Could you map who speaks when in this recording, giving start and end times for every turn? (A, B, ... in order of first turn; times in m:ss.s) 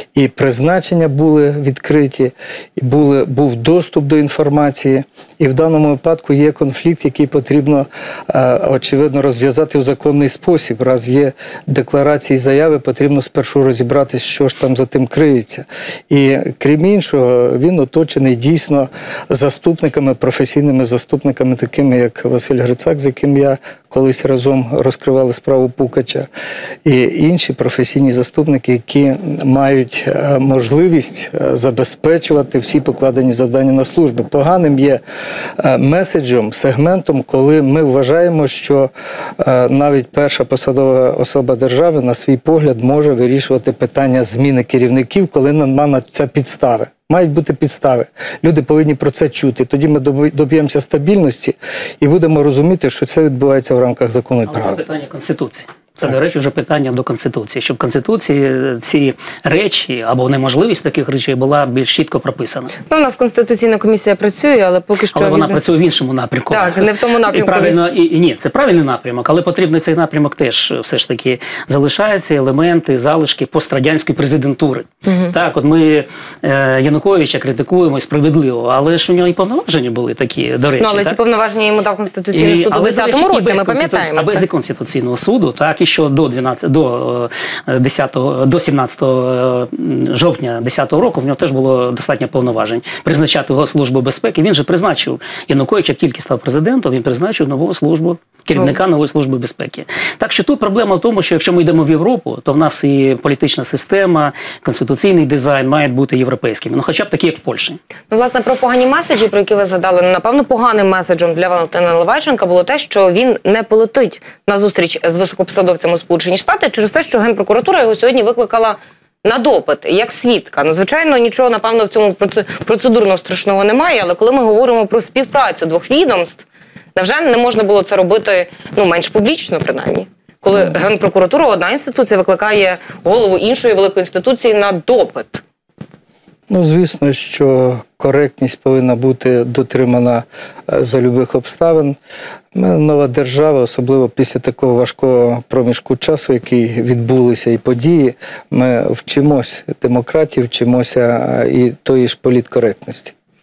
0:00.1-0:26.3 A
0:26.8-0:35.0 A
0:35.6-0:54.8 A
0:54.5-1:02.7 B
1:02.9-1:05.6 C
1:05.1-1:21.2 B
1:06.5-1:07.8 C
1:15.0-1:15.3 C
1:20.8-1:24.4 C
1:22.3-1:47.8 B
1:48.1-2:15.4 C
2:16.5-2:22.0 A
2:22.5-2:33.1 A